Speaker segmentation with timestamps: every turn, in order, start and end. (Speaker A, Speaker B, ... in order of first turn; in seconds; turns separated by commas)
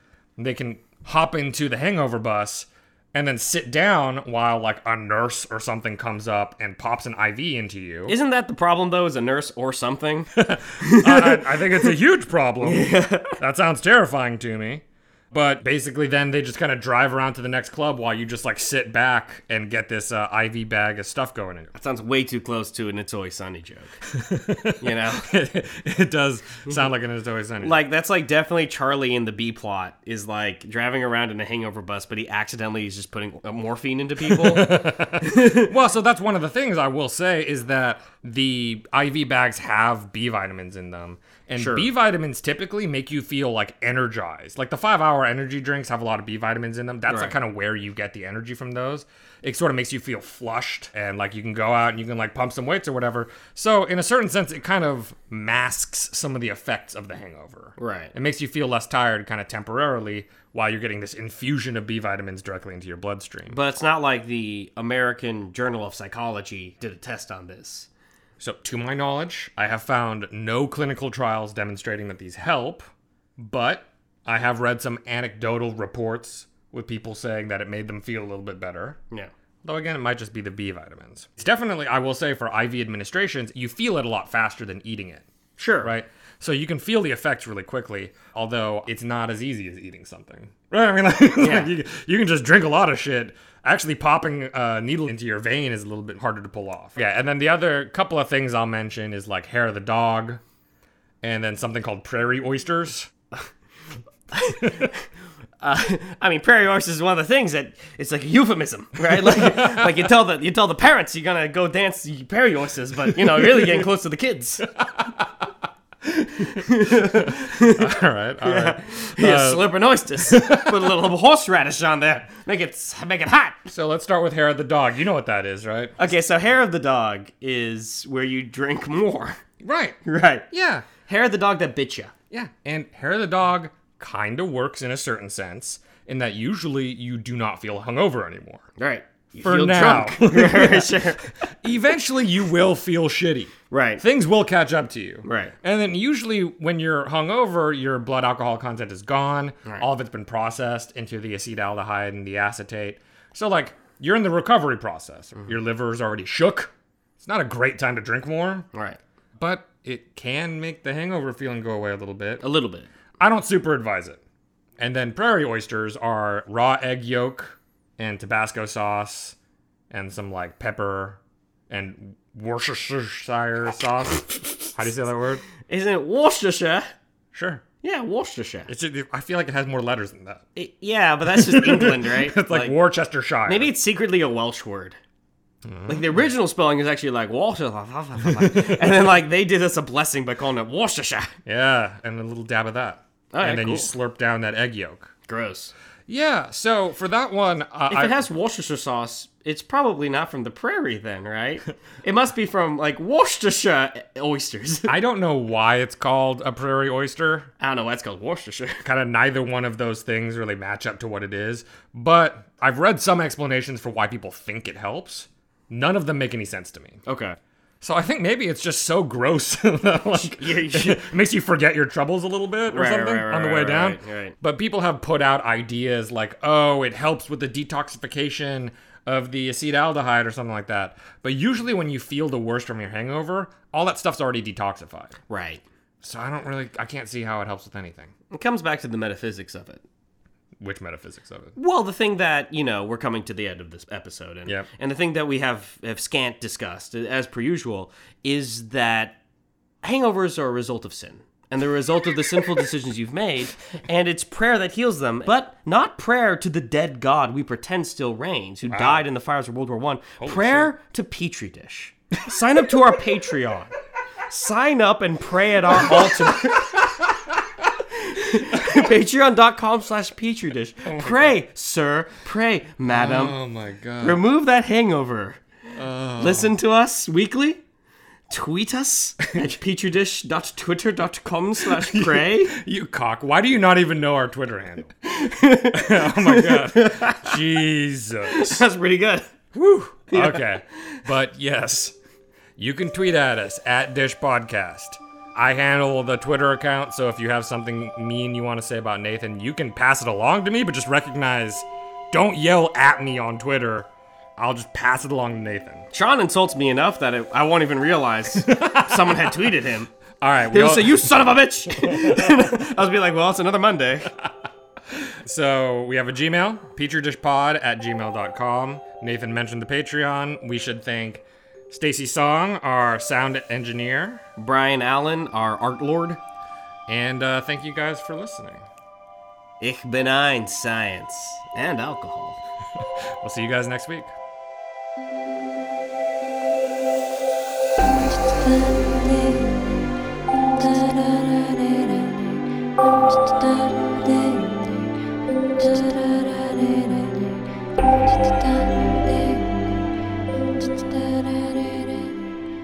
Speaker A: 0.4-8.2, Speaker B: 8.1-11.9, Speaker A: 10.4-21.7, Speaker B: 12.6-13.4, Speaker B: 21.8-23.9, Speaker A: 24.1-27.8, Speaker B: 24.8-25.3, Speaker B: 27.6-35.7, Speaker A: 34.2-63.6, Speaker B: 41.5-41.9, Speaker B: 57.8-58.1, Speaker B: 63.5-67.9, Speaker A: 68.4-79.0, Speaker A: 79.6-85.3, Speaker B: 85.6-85.9, Speaker A: 85.8-100.4, Speaker B: 91.4-91.7, Speaker A: 101.2-103.1, Speaker B: 104.3-105.0, Speaker A: 104.6-104.9, Speaker B: 105.6-114.7, Speaker A: 109.2-110.1, Speaker A: 114.8-115.5, Speaker A: 116.1-121.0, Speaker B: 116.5-123.6, Speaker A: 123.7-126.0, Speaker B: 126.0-129.4, Speaker A: 129.6-130.0, Speaker B: 130.0-130.5, Speaker A: 130.5-130.9, Speaker B: 131.0-132.1, Speaker A: 132.3-138.6, Speaker B: 138.8-141.4, Speaker A: 139.4-158.7, Speaker B: 143.7-144.0, Speaker B: 145.2-145.5, Speaker B: 158.7-159.0, Speaker A: 159.4-162.4, Speaker B: 162.4-162.9, Speaker A: 163.2-164.2, Speaker A: 164.8-169.3, Speaker A: 169.9-171.2, Speaker A: 171.7-175.4, Speaker B: 175.7-176.9, Speaker A: 177.3-177.6, Speaker B: 177.8-178.7, Speaker A: 178.7-180.4, Speaker B: 180.6-182.8, Speaker A: 181.3-183.7, Speaker B: 183.4-185.0, Speaker A: 185.6-186.1, Speaker B: 185.9-191.3, Speaker A: 188.3-188.8, Speaker A: 191.4-195.1, Speaker B: 193.3-193.9, Speaker B: 195.3-195.7, Speaker A: 196.1-198.2, Speaker B: 197.9-204.9, Speaker A: 204.9-207.5, Speaker B: 207.6-208.8, Speaker A: 208.8-217.0, Speaker B: 217.1-217.4, Speaker A: 217.8-235.2, Speaker B: 220.1-221.1, Speaker B: 222.7-224.3, Speaker B: 235.3-235.6, Speaker A: 236.0-238.1, Speaker B: 238.3-239.8, Speaker A: 240.6-241.5, Speaker B: 241.6-249.2, Speaker B: 249.8-263.7, Speaker A: 258.6-259.1, Speaker A: 260.2-260.7, Speaker B: 264.3-267.1, Speaker A: 265.9-266.3, Speaker B: 267.9-273.4, Speaker A: 270.9-271.4, Speaker A: 272.9-274.2, Speaker B: 274.0-275.4, Speaker A: 275.7-276.5, Speaker B: 276.2-277.6, Speaker B: 278.3-282.6, Speaker A: 281.8-284.9, Speaker B: 285.0-287.4, Speaker A: 285.7-288.6, Speaker B: 288.3-289.4, Speaker A: 289.5-291.9, Speaker B: 290.1-291.0, Speaker A: 292.6-305.9, Speaker B: 305.9-309.9, Speaker A: 308.4-309.5, Speaker A: 310.2-311.1, Speaker B: 310.5-314.1, Speaker A: 311.8-312.3, Speaker A: 314.9-324.2, Speaker B: 324.4-326.2, Speaker A: 326.9-328.6, Speaker B: 329.6-332.4, Speaker A: 333.2-334.1, Speaker C: 337.8-339.8, Speaker C: 340.3-352.3